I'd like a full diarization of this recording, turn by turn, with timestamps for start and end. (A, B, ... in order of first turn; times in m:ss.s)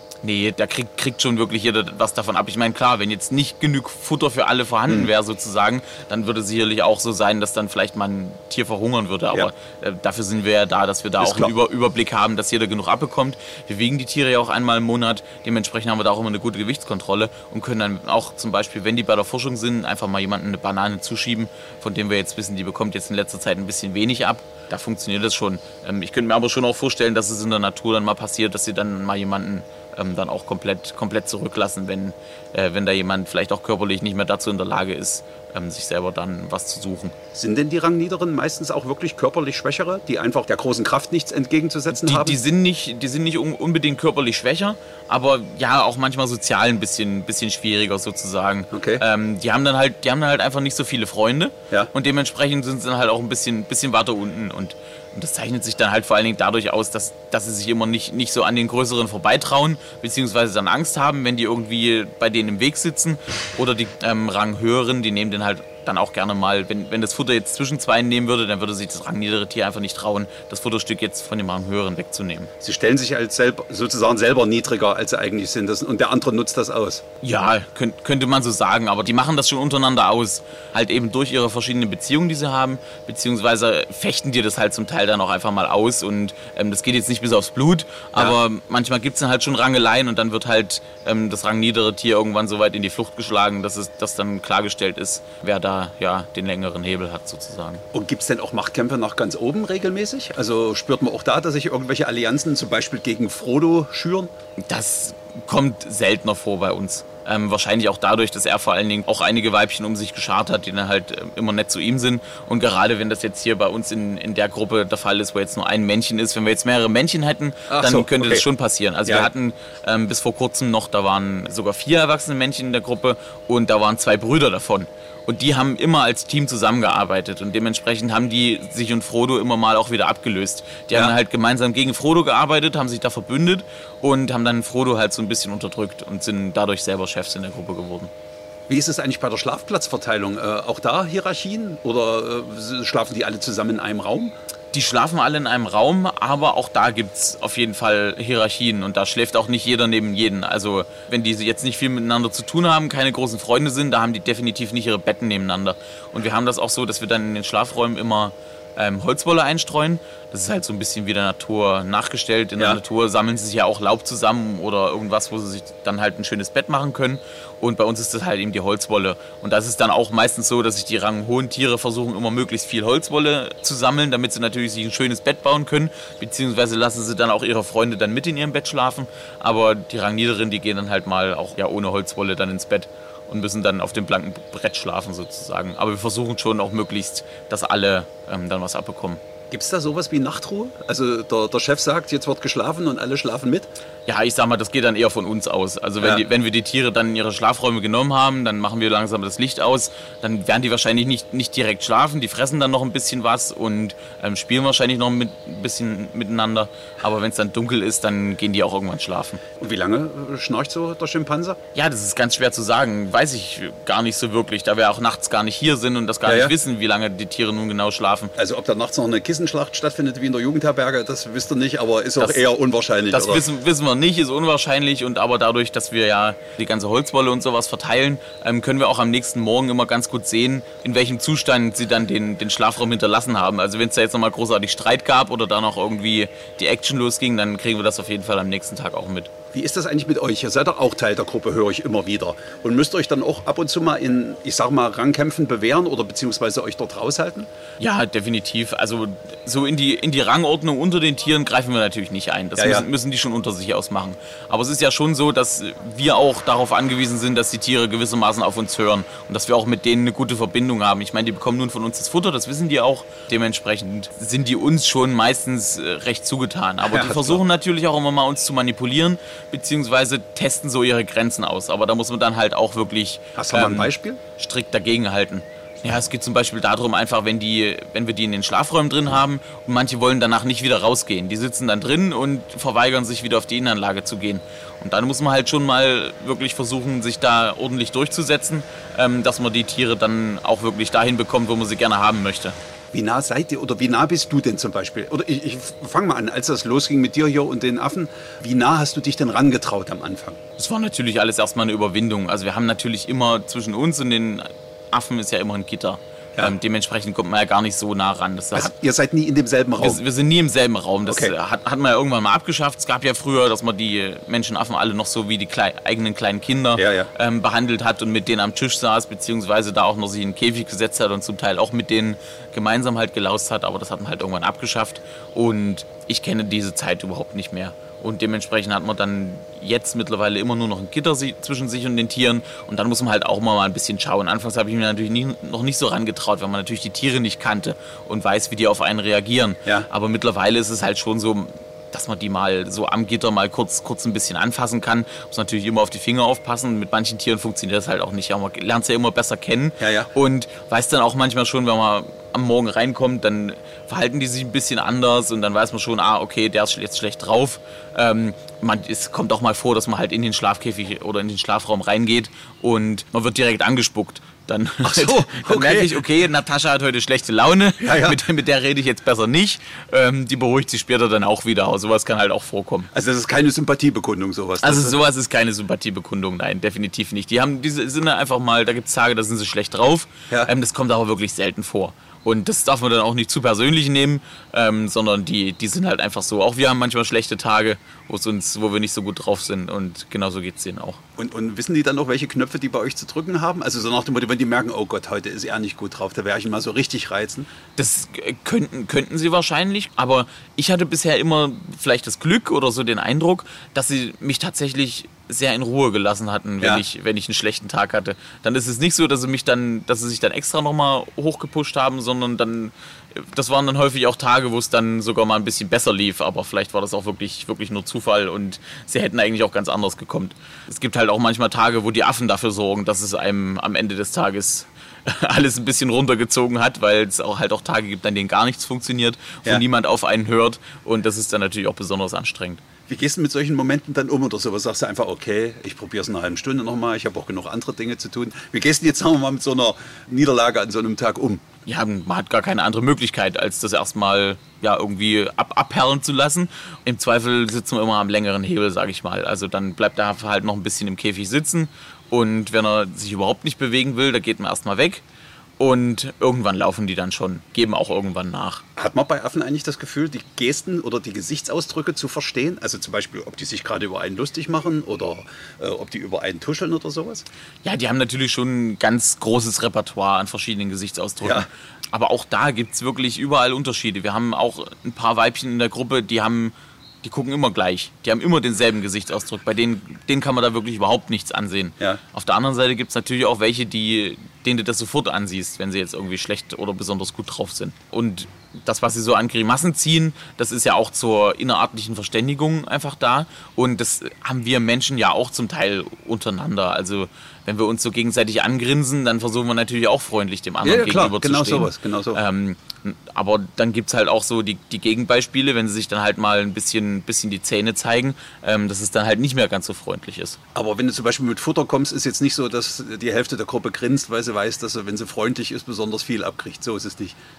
0:00.2-0:37.1 A
0:11.2-0:11.5 B
0:37.3-0:42.4 B
0:41.9-1:12.5 A
0:48.7-0:49.0 B
1:12.6-1:17.0 B
1:17.2-1:37.8 A
1:37.9-1:44.3 B
1:44.6-2:18.1 A
1:57.7-1:58.5 B
2:18.7-2:24.3 B
2:24.7-3:09.2 A
3:09.5-3:13.7 B
3:14.1-3:29.4 A
3:29.6-3:31.6 B
3:31.8-3:38.3 A
3:36.3-3:36.5 B
3:38.4-3:43.4 B
3:43.1-3:59.3 A
3:59.5-4:07.5 B
4:07.8-4:52.6 A
4:12.6-4:12.9 B
4:26.8-4:27.4 B
4:33.4-4:34.2 B
4:52.9-5:00.4 B
5:00.6-5:08.7 A
5:08.5-5:10.0 B
5:09.8-6:12.9 A
5:11.1-5:11.3 B
5:16.8-5:17.1 B
5:49.8-5:50.1 B
6:04.8-6:06.0 B
6:07.8-6:08.2 B
6:12.9-6:15.0 B
6:14.6-6:31.0 A
6:31.2-6:37.5 B
6:37.8-7:12.6 A
7:12.9-7:21.4 B
7:21.7-7:35.0 A
7:35.6-7:38.6 A
7:38.8-7:47.2 B
7:47.6-8:30.4 A
7:51.2-7:51.5 B
8:20.6-8:22.2 B
8:30.6-8:37.2 B